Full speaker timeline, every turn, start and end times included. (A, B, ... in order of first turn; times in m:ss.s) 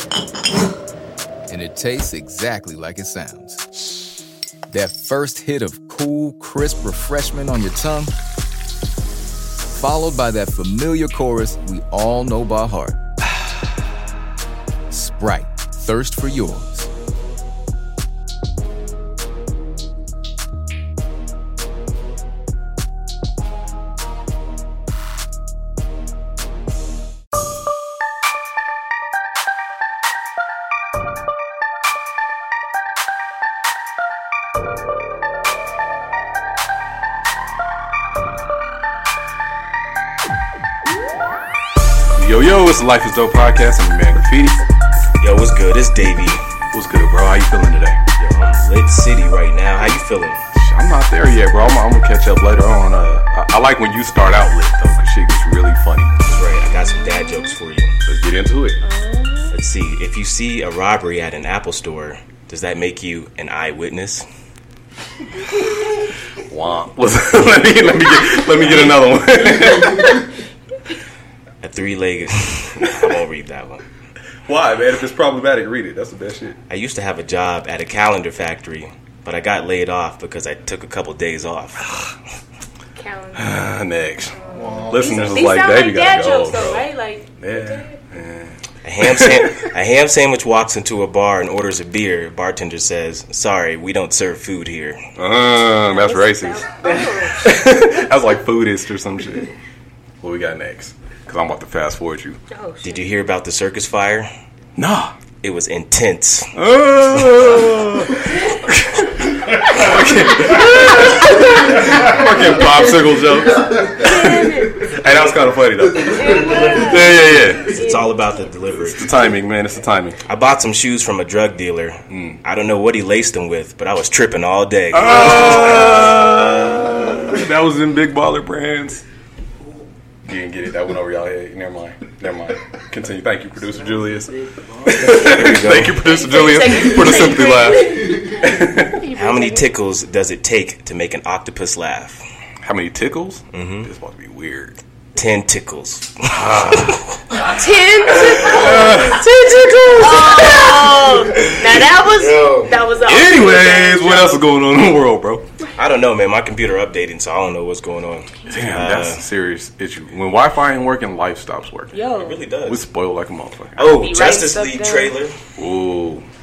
0:01.5-0:03.7 A
0:04.7-0:08.1 A
0:09.7-0:13.0 A
0:14.9-0:16.9 A
0:42.2-0:44.6 B
0:45.2-0:46.4 C
0:46.7-0:48.0 B
0:48.2-0:50.4 C
0:50.5-0:56.2 B
0:56.2-0:58.0 C
0:57.0-0:57.5 D
0:58.1-0:58.8 B
0:58.8-0:59.5 D
0:59.5-1:04.2 C
1:06.5-1:10.3 B
1:11.6-1:13.8 C
1:14.5-1:16.6 B
1:16.7-1:22.1 C
1:23.0-1:23.5 D
1:23.3-1:26.8 B
1:24.3-1:28.0 D
1:27.4-1:29.7 B
1:28.8-1:35.0 C
1:35.2-1:39.5 B
1:35.9-1:37.5 D
1:40.2-1:42.4 B
1:42.5-1:43.0 D
1:42.8-1:44.3 C
1:44.8-1:45.2 B
1:45.4-1:46.5 C
1:46.6-1:57.8 B
1:50.5-1:51.7 D
1:53.9-1:55.0 D
1:56.0-1:58.1 D
1:57.7-1:59.1 C
1:58.8-2:00.2 B
2:00.3-2:07.1 C
2:02.1-2:02.4 B
2:04.9-2:09.0 B
2:05.4-2:05.7 D
2:10.2-2:19.0 B
2:15.0-2:16.0 C
2:16.0-2:19.7 D
2:19.2-2:22.2 C
2:22.6-2:24.8 B
2:23.5-2:23.9 C
2:25.2-2:27.2 C
2:26.3-2:27.1 B
2:27.4-2:29.2 D
2:28.2-2:31.6 B
2:29.9-2:34.4 D
2:30.4-2:31.4 C
2:32.2-2:32.8 C
2:33.0-2:35.5 B
2:35.8-2:39.2 C
2:38.5-2:41.9 B
2:41.9-2:42.4 D
2:42.2-2:42.8 C
2:42.7-2:43.9 B
2:43.8-2:45.4 C
2:43.9-2:45.1 D
2:45.6-2:46.2 B